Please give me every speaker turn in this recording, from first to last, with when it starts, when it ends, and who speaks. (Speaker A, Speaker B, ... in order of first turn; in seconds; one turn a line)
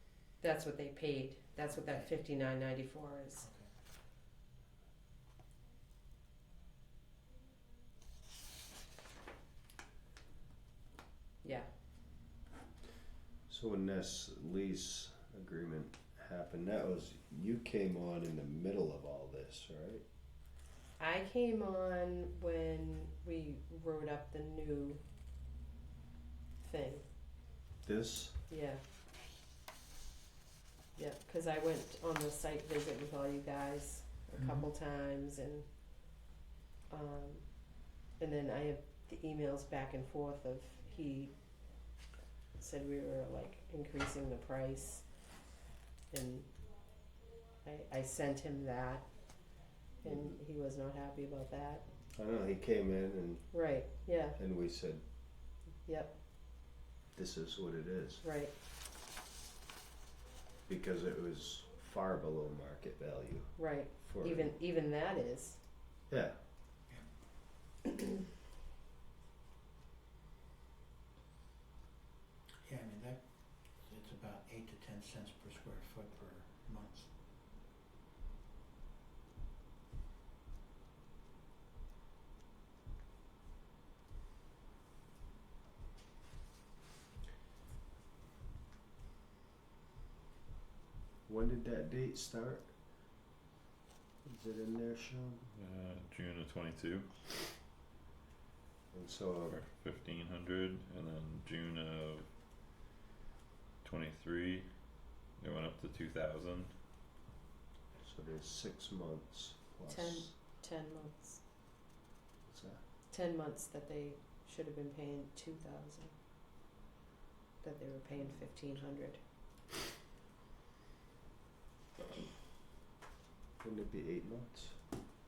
Speaker A: 0.4-3.5
Speaker B: 1.7-2.1
Speaker B: 3.4-3.7
Speaker C: 13.5-20.1
Speaker A: 21.0-25.0
Speaker A: 26.6-27.1
Speaker C: 27.8-28.4
Speaker A: 28.5-28.8
Speaker A: 31.0-35.7
Speaker A: 36.9-37.5
Speaker A: 38.2-41.3
Speaker A: 42.6-45.0
Speaker A: 46.1-46.5
Speaker A: 47.6-49.0
Speaker C: 50.0-50.4
Speaker A: 50.0-51.9
Speaker C: 52.1-53.5
Speaker A: 53.5-54.4
Speaker C: 54.4-55.0
Speaker A: 55.9-56.1
Speaker C: 57.1-58.2
Speaker A: 58.2-58.5
Speaker C: 60.7-64.6
Speaker A: 63.6-65.6
Speaker C: 66.1-66.4
Speaker B: 72.7-77.1
Speaker C: 91.3-92.7
Speaker C: 94.2-95.5
Speaker D: 95.5-97.1
Speaker C: 98.9-99.6
Speaker D: 99.5-102.3
Speaker D: 103.8-104.7
Speaker D: 105.4-106.7
Speaker C: 108.0-110.3
Speaker A: 109.9-111.4
Speaker C: 112.5-112.8
Speaker A: 113.1-116.1
Speaker A: 117.6-119.2
Speaker C: 123.6-124.8